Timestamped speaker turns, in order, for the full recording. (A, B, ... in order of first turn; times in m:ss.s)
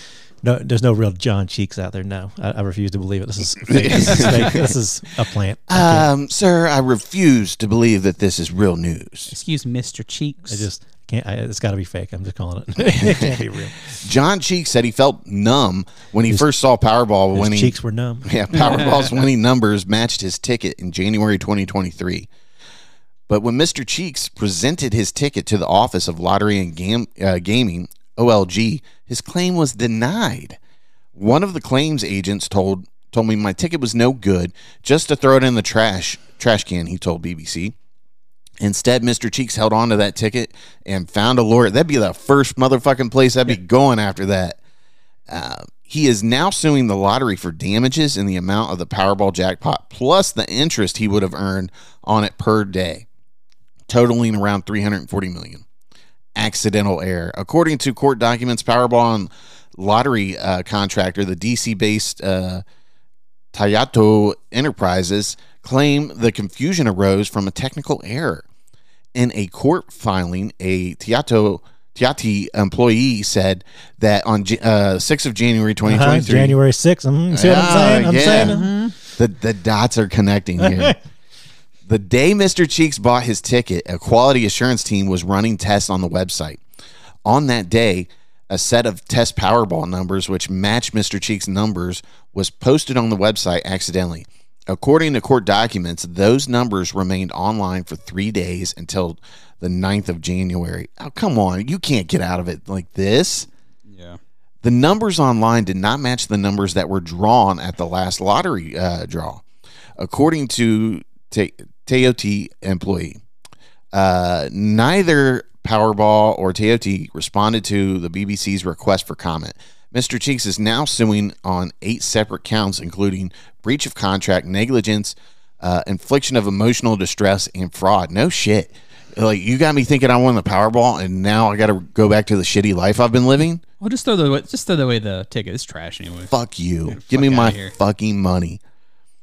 0:00.4-0:06.1 A
0:03.7-0:04.7 B
0:05.7-0:09.3 B
0:09.3-0:10.7 C
0:10.5-0:14.0 A
0:12.8-0:22.3 B
0:17.4-0:18.4 A
0:23.3-0:30.6 B
0:31.2-0:37.8 B
0:38.6-0:44.6 B
0:45.3-0:53.1 B
0:53.9-0:55.6 B
0:56.4-1:02.6 B
1:03.5-1:08.4 B
1:09.2-1:16.6 B
1:15.9-1:18.7 A
1:17.3-1:18.6 B
1:18.3-1:19.0 C
1:19.2-1:21.0 B
1:20.6-1:20.9 A
1:21.9-1:26.6 B
1:27.2-1:43.5 B
1:43.9-1:44.2 C
1:44.6-1:49.4 B
1:50.0-1:53.2 B
1:53.9-2:13.6 B
2:13.8-2:16.3 C
2:16.3-2:18.6 B
2:16.9-2:17.8 C